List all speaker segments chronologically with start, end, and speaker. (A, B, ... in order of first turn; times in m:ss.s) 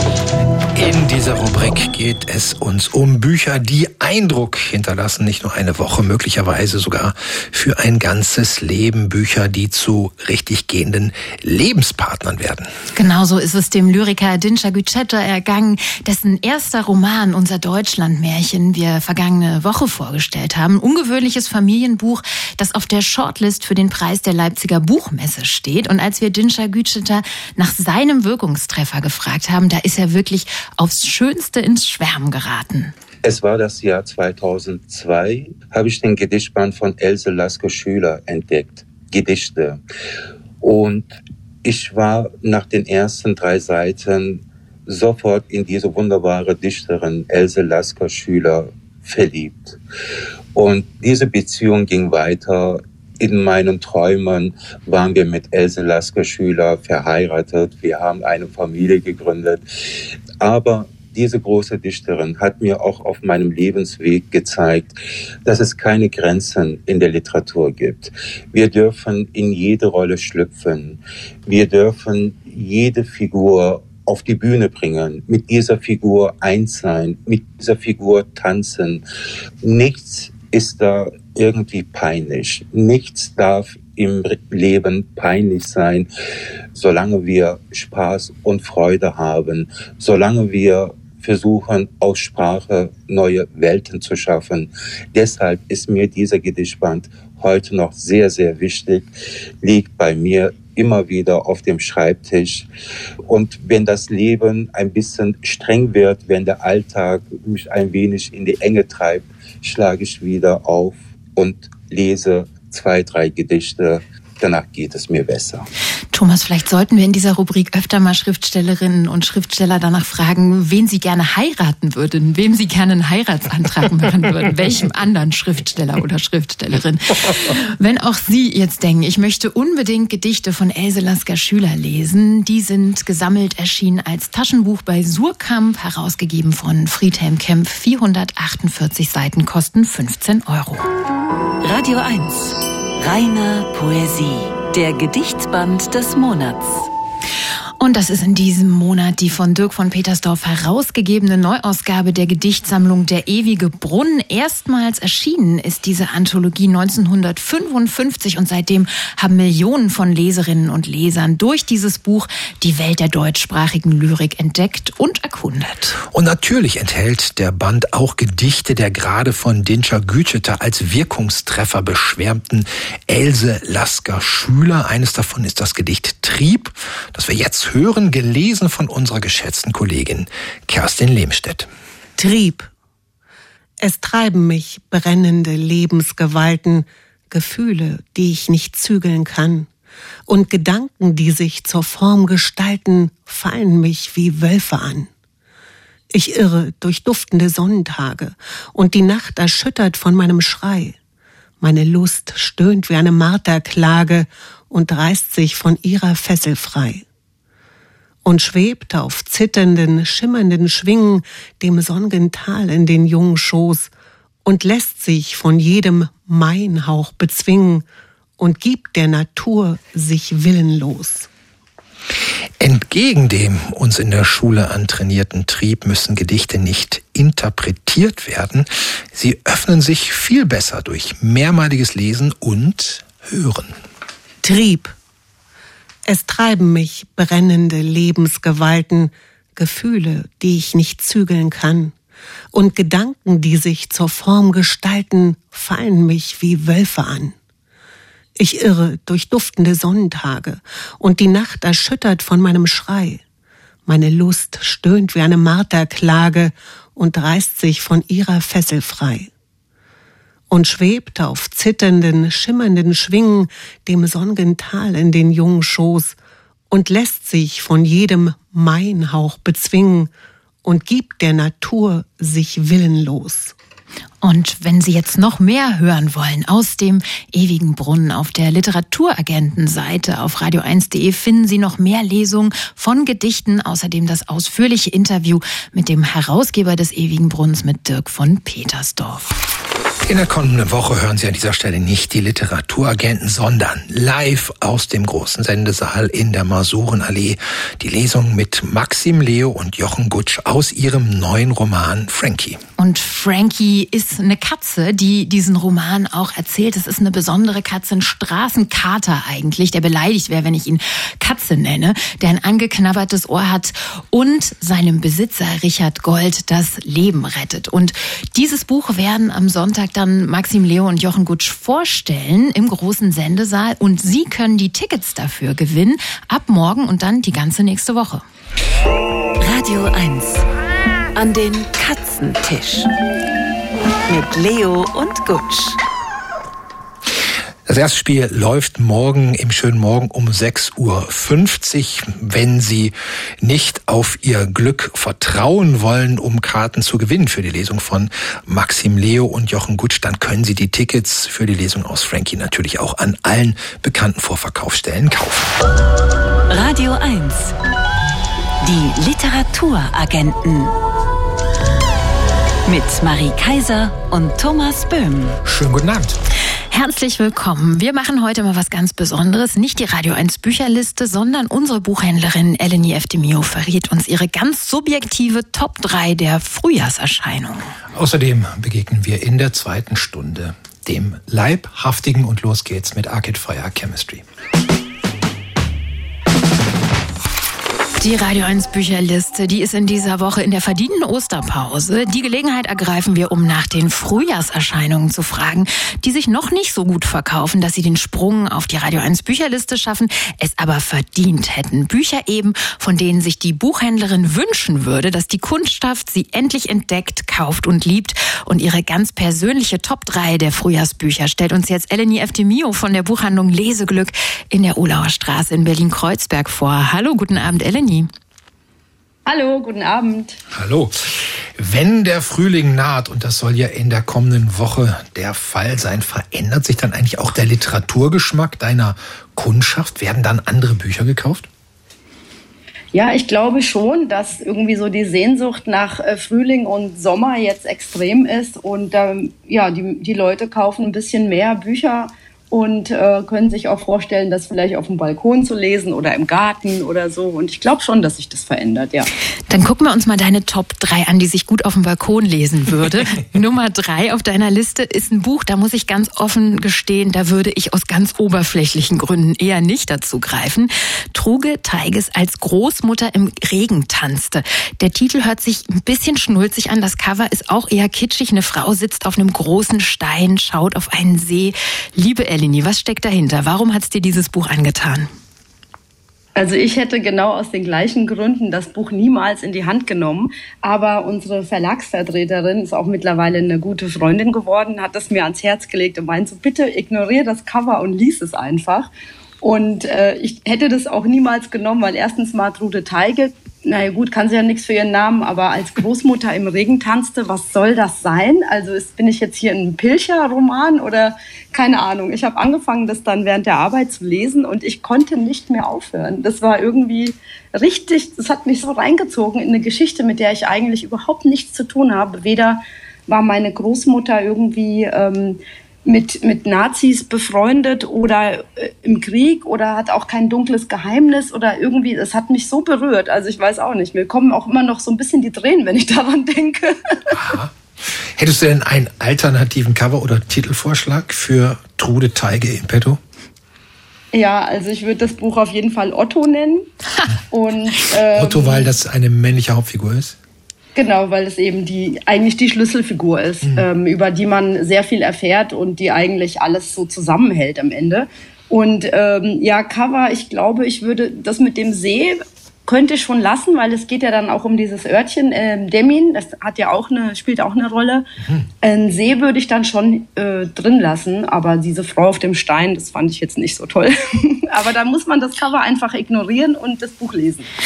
0:00.7-0:12.7 A
0:12.9-0:32.9 B
0:33.2-0:39.8 C
0:40.6-0:49.8 C
0:50.5-0:59.6 C
1:00.4-1:04.9 C
1:05.4-1:19.0 C
1:19.6-1:26.1 C
1:26.7-1:39.1 C
1:39.6-1:42.7 C
1:43.2-1:55.7 C
1:56.1-2:20.9 B
2:21.6-2:26.9 D
2:27.8-2:46.0 B
2:46.1-3:01.7 A
3:02.2-3:02.7 E
3:03.8-3:09.7 E
3:10.3-3:15.1 E
3:16.1-3:21.0 E
3:21.6-3:27.0 E
3:28.2-3:33.9 E
3:34.4-3:37.8 E
3:38.4-3:41.3 E
3:42.6-3:53.8 A
3:54.4-3:54.9 E
3:56.1-4:01.9 E
4:02.5-4:07.4 E
4:08.4-4:13.2 E
4:13.8-4:19.3 E
4:20.5-4:26.2 E
4:26.7-4:30.1 E
4:30.6-4:33.5 E
4:34.2-4:49.3 B
4:50.0-5:02.6 A
5:02.8-5:28.2 B
5:29.4-5:30.4 D
5:31.1-5:32.9 D
5:34.1-5:35.8 D
5:37.6-5:55.5 A
5:56.5-5:57.5 D
5:58.6-6:00.7 D
6:02.6-6:05.4 D
6:05.4-6:06.2 A
6:06.7-6:17.7 B
6:17.9-6:24.2 A
6:28.0-6:58.1 B
6:59.2-7:00.4 F
7:00.5-7:11.5 A
7:12.9-7:29.1 F
7:29.5-7:55.1 B
7:56.4-8:08.9 F
8:09.4-8:47.1 F
8:47.1-8:53.0 A
8:54.1-8:56.7 F
8:57.3-8:58.7 F
8:58.1-9:00.2 A
9:00.8-9:18.1 F
9:03.4-9:03.7 A
9:18.6-9:27.5 F